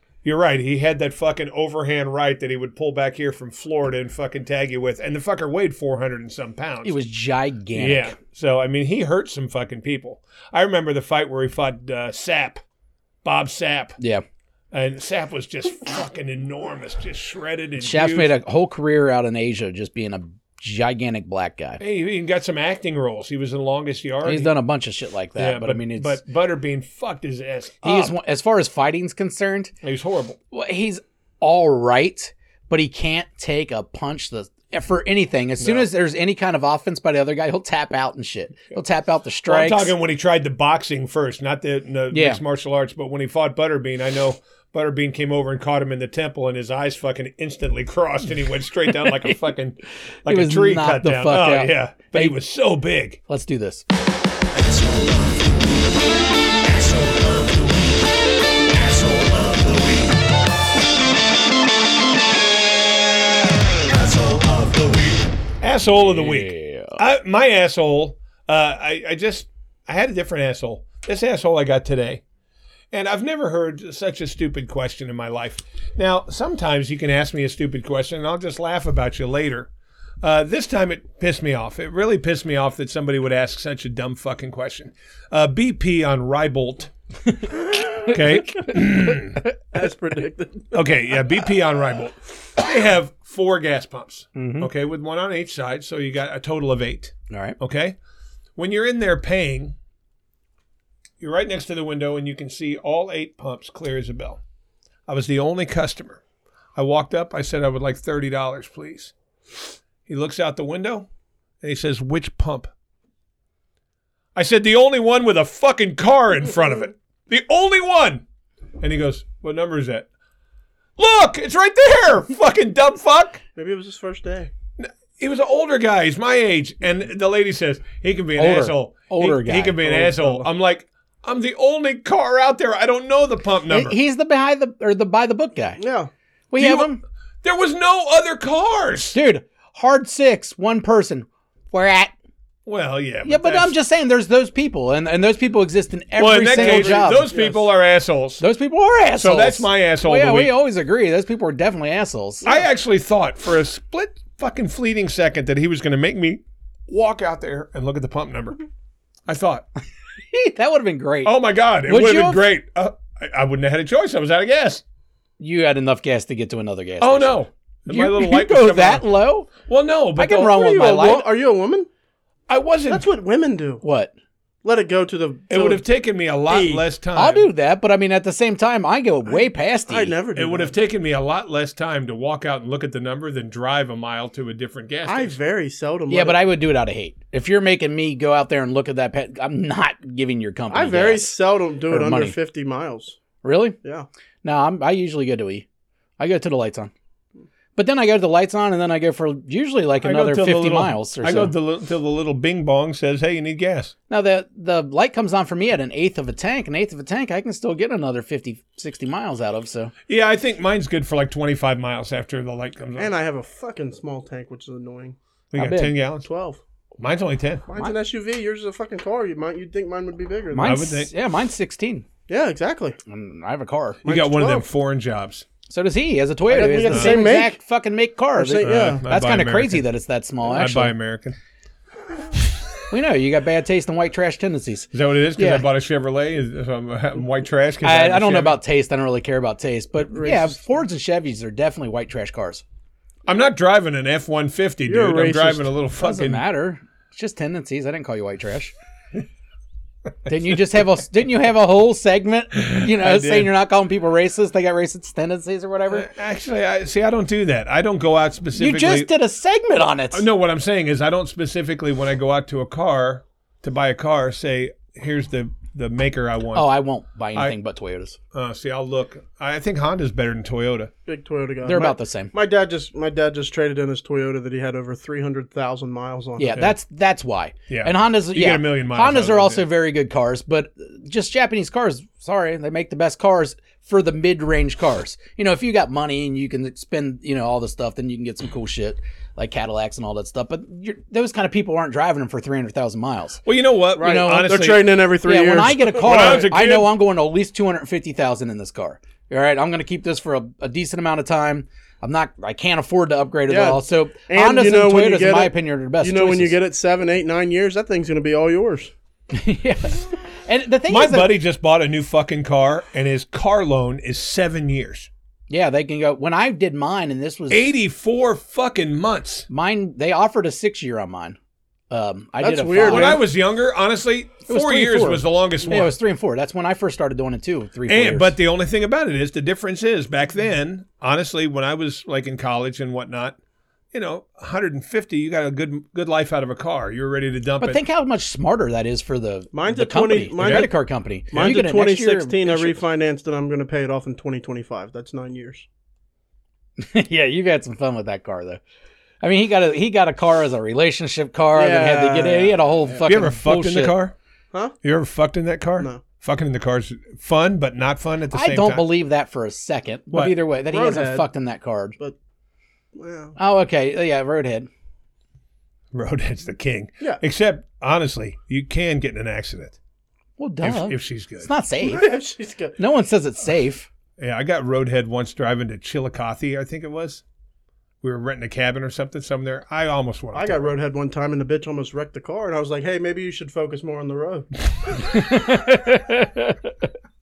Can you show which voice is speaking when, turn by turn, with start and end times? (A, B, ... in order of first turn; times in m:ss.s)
0:00.2-0:06.9 A
0:06.8-0:08.1 B
0:07.7-0:12.6 A
0:13.2-0:14.0 A
0:14.0-0:14.2 B
0:14.7-0:18.3 A
0:17.8-0:21.8 B
0:21.8-0:24.5 A
0:24.2-0:26.2 B
0:25.4-0:28.1 A
0:27.8-0:29.7 B
0:29.8-0:30.4 A
0:30.5-0:39.9 B
0:35.6-0:35.9 A
0:39.4-0:53.2 A
0:42.1-0:42.4 B
0:49.0-0:49.4 B
0:50.2-0:52.4 B
0:53.3-0:53.8 B
0:54.6-0:55.5 A
0:56.7-0:57.9 A
0:58.7-1:00.2 A
1:03.8-1:12.2 A
1:06.0-1:07.0 B
1:12.9-1:19.7 A
1:20.2-1:26.9 A
1:28.0-1:29.4 A
1:29.7-1:30.8 C
1:30.7-1:38.0 A
1:34.3-1:34.7 B
1:37.3-1:37.6 B
1:38.6-1:39.8 A
1:41.2-1:44.4 A
1:45.1-1:46.2 A
1:46.8-1:49.1 A
1:50.0-1:51.1 A
1:51.6-1:52.7 A
1:54.3-1:58.2 A
1:58.8-2:00.1 A
2:01.0-2:03.4 A
2:03.6-2:04.5 C
2:04.8-2:14.0 A
2:08.4-2:10.0 B
2:09.8-2:10.4 C
2:13.7-2:15.8 B
2:15.8-2:16.1 C
2:16.5-2:17.0 B
2:16.6-2:16.9 A
2:17.4-2:19.2 A
2:19.1-2:22.1 B
2:22.6-2:23.7 A
2:23.2-2:27.3 B
2:26.2-2:28.4 A
2:26.5-2:27.6 C
2:28.4-2:32.5 B
2:29.2-2:30.5 A
2:32.4-2:38.6 A
2:39.2-2:39.6 A
2:40.3-2:42.4 B
2:41.2-2:44.8 A
2:45.4-2:49.5 B
2:47.0-2:50.5 A
2:50.2-2:51.2 B
2:50.4-2:51.9 C
2:52.5-2:53.0 A
2:52.9-2:53.8 C
2:53.8-2:54.1 B
2:54.6-2:55.8 C
2:55.5-2:57.5 A
2:56.5-2:56.8 C
2:57.1-3:00.1 B
2:59.3-3:00.7 C
3:00.3-3:05.4 A
3:05.0-3:06.4 C
3:06.1-3:11.3 B
3:10.7-3:13.2 C
3:11.9-3:12.3 B
3:13.4-3:13.8 B
3:14.4-3:15.6 B
3:16.2-3:16.9 B
3:17.7-3:21.5 B
3:20.0-3:23.9 A
3:24.1-3:29.9 B
3:30.1-3:33.1 A
3:33.0-3:35.2 C
3:35.5-3:36.3 A
3:35.5-3:35.9 B
3:36.2-3:36.6 C
3:37.0-3:37.6 A
3:37.7-3:40.8 C
3:40.5-3:42.0 B
3:40.6-3:41.1 A
3:42.3-3:43.0 C
3:43.1-3:44.0 B
3:44.0-3:44.6 C
3:44.0-3:45.4 A
3:45.7-3:50.9 B
3:46.5-3:47.6 C
3:48.3-3:49.0 C
3:48.6-3:49.8 A
3:50.4-3:51.4 A
3:52.9-3:55.6 B
3:54.9-3:58.6 A
3:57.8-4:02.6 B
4:00.1-4:00.6 C
4:03.2-4:06.4 A
4:04.9-4:05.7 C
4:06.0-4:08.7 B
4:10.2-4:16.1 B
4:12.8-4:13.5 A
4:15.9-4:19.1 A
4:18.6-4:20.2 B
4:20.1-4:26.7 A
4:26.5-4:28.2 B
4:28.3-4:30.9 A
4:31.0-4:36.6 C
4:31.6-4:32.3 B
4:36.4-4:53.4 B
4:37.7-4:39.6 A
4:53.4-4:54.9 A
4:54.0-4:56.5 C
4:54.0-4:54.5 B
4:55.2-5:06.6 B
4:56.0-4:56.9 A
5:03.5-5:08.9 C
5:09.3-5:11.3 B
5:10.9-5:15.1 A
5:15.5-5:17.7 B
5:17.5-5:19.5 A
5:19.5-5:21.4 B
5:21.9-5:23.2 B
5:22.4-5:23.2 C
5:22.8-5:25.9 A
5:24.5-5:28.3 B
5:27.9-5:33.4 A
5:33.9-5:37.8 A
5:37.6-5:42.8 B
5:39.5-5:40.7 C
5:40.4-5:40.7 A
5:41.3-5:45.6 C
5:46.8-5:48.6 B
5:49.2-5:54.0 B
5:51.5-5:52.8 C
5:53.0-5:54.1 A
5:54.8-5:58.9 A
5:58.3-6:02.0 B
6:00.1-6:00.4 A
6:00.7-6:01.3 C
6:02.9-6:03.4 C
6:03.4-6:04.7 B
6:05.9-6:09.8 A
6:10.4-6:12.1 B
6:10.6-6:11.5 A
6:11.8-6:12.8 C
6:12.8-6:13.9 B
6:14.2-6:17.2 A
6:18.0-6:20.7 A
6:20.3-6:24.5 C
6:25.0-6:26.7 B